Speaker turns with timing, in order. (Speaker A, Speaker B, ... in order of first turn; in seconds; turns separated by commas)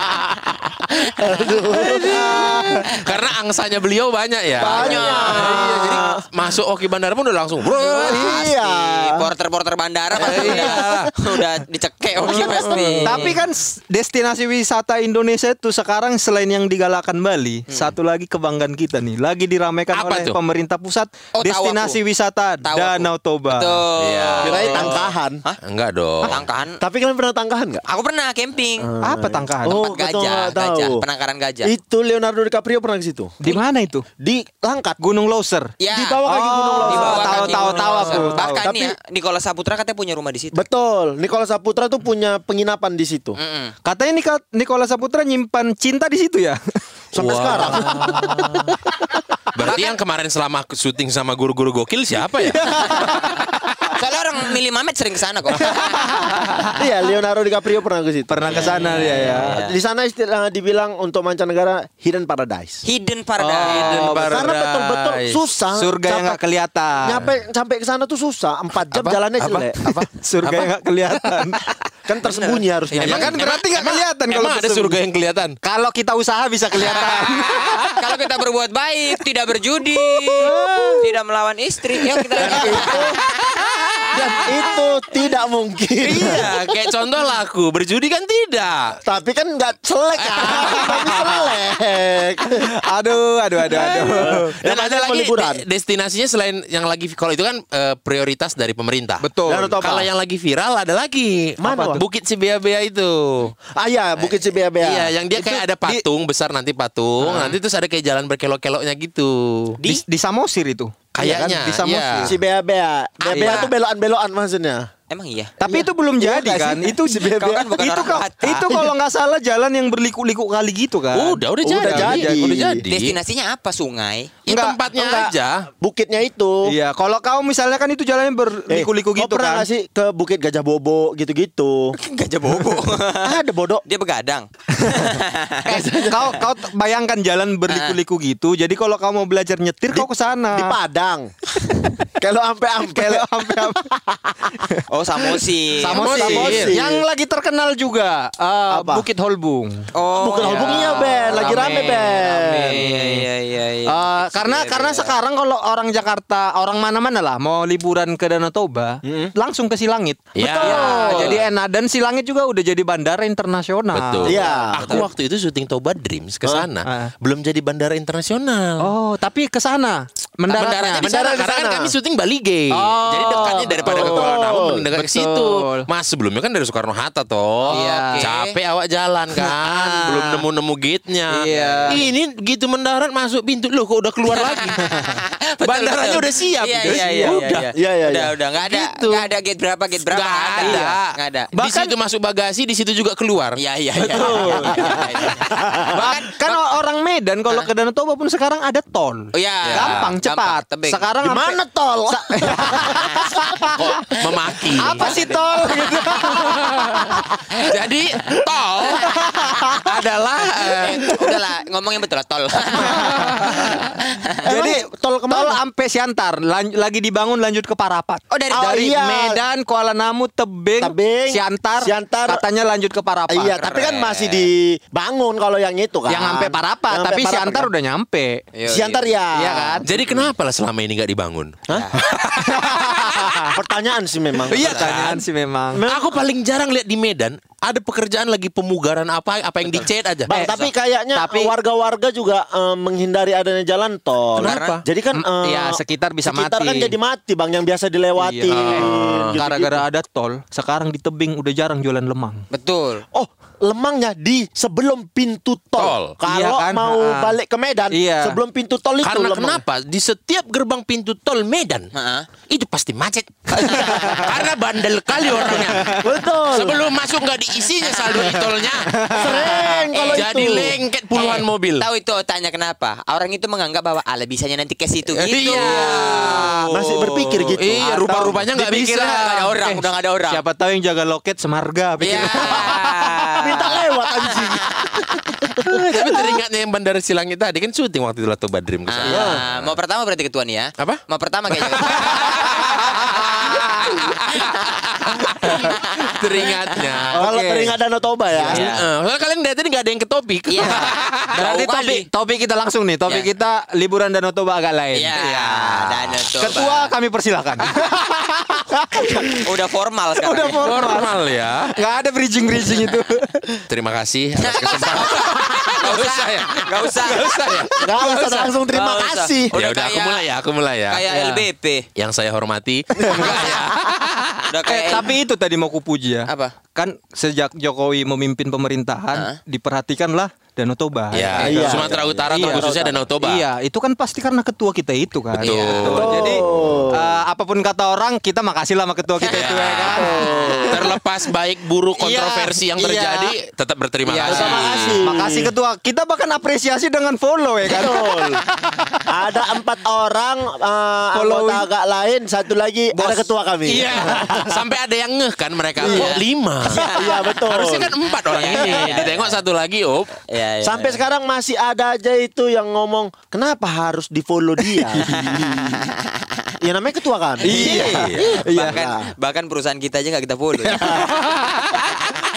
Speaker A: 1.0-2.9, Speaker B: 1.7-8.4, Speaker A: 4.5-6.2, Speaker C: 4.6-6.0, Speaker A: 7.7-9.3, Speaker C: 7.7-13.4, Speaker B: 10.2-11.1, Speaker A: 10.2-11.1, Speaker A: 12.3-13.3, Speaker D: 13.1-23.8, Speaker B: 19.9-20.4, Speaker C: 21.4-22.0, Speaker C: 22.6-25.6, Speaker B: 24.0-25.1, Speaker A: 24.4-25.4, Speaker B: 25.6-26.4, Speaker C: 26.2-26.8, Speaker A: 26.8-27.8, Speaker C: 27.9-28.9, Speaker A: 28.8-31.0, Speaker D: 29.0-29.8, Speaker C: 29.7-31.7, Speaker A: 31.6-33.4, Speaker D: 33.4-34.1, Speaker A: 34.2-35.0, Speaker D: 35.0-35.7, Speaker C: 35.8-36.2, Speaker A: 35.9-39.0, Speaker D: 36.3-38.6, Speaker C: 36.8-40.6, Speaker A: 40.5-43.4, Speaker C: 43.4-43.7, Speaker D: 43.9-46.8, Speaker A: 47.1-48.8, Speaker B: 47.2-48.8, Speaker B: 49.5-53.4, Speaker D: 52.5-53.3, Speaker C: 53.9-56.7, Speaker D: 55.6-56.6, Speaker A: 56.8-62.8, Speaker D: 58.3-59.6, Speaker C: 59.4-59.8, Speaker C: 62.8-64.2, Speaker D: 63.4-64.6, Speaker B: 63.6-65.4, Speaker A: 64.3-66.4, Speaker D: 65.8-67.2, Speaker A: 67.0-69.8, Speaker B: 68.9-71.6, Speaker D: 69.8-71.6, Speaker A: 72.1-73.4, Speaker C: 72.2-72.6, Speaker D: 72.9-75.0, Speaker B: 73.0-75.6, Speaker D: 75.6-77.9, Speaker B: 76.8-78.0, Speaker C: 77.5-83.6, Speaker D: 80.4-81.0, Speaker A: 80.4-81.1, Speaker D: 82.1-83.1, Speaker A: 82.3-83.2, Speaker B: 82.5-83.0, Speaker B: 83.5-84.5, Speaker A: 84.1-86.5, Speaker C: 86.0-86.8, Speaker B: 86.1-89.0, Speaker A: 89.0-92.7, Speaker B: 90.2-91.6, Speaker D: 92.5-94.5, Speaker B: 93.7-99.3, Speaker A: 94.1-95.6, Speaker D: 99.2-99.8, Speaker A: 99.5-100.1, Speaker B: 99.8-103.5, Speaker A: 101.6-102.0, Speaker D: 101.7-102.0, Speaker A: 103.7-105.1, Speaker B: 104.8-109.8, Speaker D: 105.4-106.0, Speaker D: 109.9-112.4, Speaker B: 111.1-112.3, Speaker A: 112.2-114.9, Speaker C: 113.2-113.8, Speaker D: 113.3-113.7, Speaker C: 115.1-115.5, Speaker A: 115.6-117.6, Speaker D: 115.6-122.5, Speaker C: 116.7-118.9, Speaker B: 121.1-123.2, Speaker A: 121.6-122.8, Speaker C: 122.9-124.3, Speaker B: 124.5-125.7, Speaker D: 124.5-124.8, Speaker A: 124.9-126.8, Speaker D: 126.7-129.7, Speaker A: 128.7-132.0, Speaker C: 131.9-135.8, Speaker A: 133.2-133.8, Speaker D: 134.8-135.1, Speaker A: 135.7-136.4, Speaker D: 135.7-140.8, Speaker C: 137.7-138.0, Speaker A: 139.9-141.3, Speaker A: 142.1-144.6, Speaker D: 142.8-143.9, Speaker C: 144.9-146.0, Speaker D: 145.8-153.2, Speaker A: 145.9-147.1, Speaker B: 145.9-146.8, Speaker A: 148.7-149.1, Speaker C: 149.9-155.2, Speaker A: 150.1-152.8, Speaker D: 153.9-164.4, Speaker A: 159.0-159.3, Speaker B: 160.3-161.5, Speaker A: 160.4-160.8, Speaker C: 160.6-161.4, Speaker B: 163.9-168.9, Speaker A: 164.2-165.1, Speaker C: 164.6-165.1, Speaker D: 166.8-167.1, Speaker D: 168.8-171.1, Speaker B: 170.5-184.8, Speaker A: 171.0-171.9, Speaker D: 172.7-174.4, Speaker A: 173.3-174.9, Speaker D: 174.9-175.9, Speaker C: 177.7-178.6, Speaker D: 177.7-178.3, Speaker D: 181.3-182.0, Speaker C: 181.5-182.1, Speaker C: 184.3-191.5, Speaker D: 184.8-185.2, Speaker B: 185.6-187.7, Speaker D: 186.9-187.2, Speaker A: 187.7-188.4, Speaker B: 188.6-189.3, Speaker B: 190.1-193.6, Speaker D: 190.6-191.0, Speaker D: 191.5-191.9, Speaker C: 193.6-196.6, Speaker A: 194.0-196.1, Speaker D: 194.2-194.7, Speaker B: 194.9-195.3, Speaker D: 195.9-203.9, Speaker C: 199.3-201.1, Speaker B: 199.6-200.2, Speaker A: 201.2-203.7, Speaker C: 202.9-203.3, Speaker B: 203.8-205.1, Speaker C: 204.7-206.1, Speaker D: 204.7-207.1, Speaker B: 206.2-211.1, Speaker D: 209.1-209.8, Speaker C: 209.9-213.2, Speaker D: 212.8-213.4, Speaker B: 213.1-213.7, Speaker C: 214.1-214.3, Speaker A: 214.4-215.6, Speaker D: 214.4-223.9, Speaker C: 218.3-218.7, Speaker A: 218.5-219.4, Speaker A: 220.8-222.4, Speaker A: 223.3-227.7, Speaker C: 223.6-224.5, Speaker D: 226.1-228.4, Speaker C: 228.5-229.2, Speaker A: 228.7-230.2, Speaker D: 229.3-229.9, Speaker B: 229.8-233.5, Speaker A: 231.7-232.0, Speaker C: 231.7-232.1, Speaker D: 232.3-233.6, Speaker A: 233.5-234.8, Speaker D: 234.5-235.8, Speaker B: 234.5-235.2, Speaker C: 234.6-234.9, Speaker A: 235.7-236.2, Speaker B: 235.9-240.3, Speaker A: 240.3-249.8, Speaker D: 240.3-241.5, Speaker C: 240.3-240.7, Speaker C: 244.4-244.8, Speaker B: 244.4-244.8, Speaker D: 245.1-246.9, Speaker D: 248.2-252.4, Speaker B: 248.5-249.4, Speaker C: 252.5-253.0, Speaker A: 253.1-259.6, Speaker B: 255.8-256.1, Speaker D: 256.3-257.4, Speaker D: 257.9-258.4, Speaker B: 259.0-261.9, Speaker C: 261.9-262.3, Speaker B: 262.4-269.1, Speaker C: 263.6-264.3, Speaker D: 263.7-264.3, Speaker D: 265.4-266.0, Speaker A: 265.9-266.8, Speaker C: 267.8-268.5, Speaker D: 268.9-269.8, Speaker A: 269.1-270.8, Speaker C: 269.6-277.8, Speaker B: 270.1-271.9, Speaker B: 275.1-276.7, Speaker D: 275.6-276.3, Speaker A: 276.7-278.2, Speaker B: 277.5-279.6, Speaker D: 277.8-283.3, Speaker C: 279.2-280.4, Speaker C: 282.0-285.2, Speaker A: 283.4-286.4, Speaker B: 285.6-289.8, Speaker C: 288.9-297.0, Speaker A: 289.1-289.4, Speaker B: 290.8-297.2, Speaker D: 291.8-293.9, Speaker D: 297.1-297.7, Speaker A: 297.2-298.7, Speaker C: 298.5-298.9, Speaker B: 298.5-301.4, Speaker C: 300.5-302.1, Speaker D: 301.3-307.9, Speaker C: 304.9-306.9, Speaker D: 308.5-309.5, Speaker C: 309.2-310.8, Speaker D: 310.2-311.1, Speaker B: 310.6-311.8, Speaker D: 311.7-313.6, Speaker B: 313.7-317.7, Speaker C: 314.4-320.3, Speaker D: 317.2-317.7, Speaker A: 317.8-319.6, Speaker B: 319.5-321.1, Speaker C: 320.9-321.9, Speaker D: 321.1-321.4, Speaker B: 321.9-324.5, Speaker D: 323.1-323.4, Speaker C: 323.2-323.6, Speaker C: 324.5-325.1, Speaker D: 324.6-341.0, Speaker C: 326.3-326.6, Speaker B: 331.1-333.4, Speaker C: 331.2-332.0, Speaker A: 331.4-333.1, Speaker B: 335.4-336.8, Speaker C: 335.4-336.1, Speaker A: 335.9-337.2, Speaker C: 339.2-340.0, Speaker B: 339.2-345.0, Speaker A: 339.9-341.0, Speaker D: 342.0-343.4, Speaker D: 344.1-348.4, Speaker A: 344.2-345.5, Speaker A: 347.6-348.4, Speaker A: 349.1-354.6, Speaker D: 351.1-351.7, Speaker D: 352.9-353.3, Speaker B: 353.6-356.9, Speaker C: 355.8-357.4, Speaker A: 355.8-356.2, Speaker A: 356.7-357.9, Speaker B: 357.4-360.2, Speaker C: 358.2-359.4, Speaker C: 360.3-361.0, Speaker A: 360.6-365.4, Speaker D: 364.9-365.8, Speaker C: 365.1-366.4, Speaker A: 366.6-369.1, Speaker D: 367.4-368.8, Speaker C: 367.5-371.1, Speaker B: 367.5-368.4, Speaker D: 370.7-371.2, Speaker B: 371.2-371.7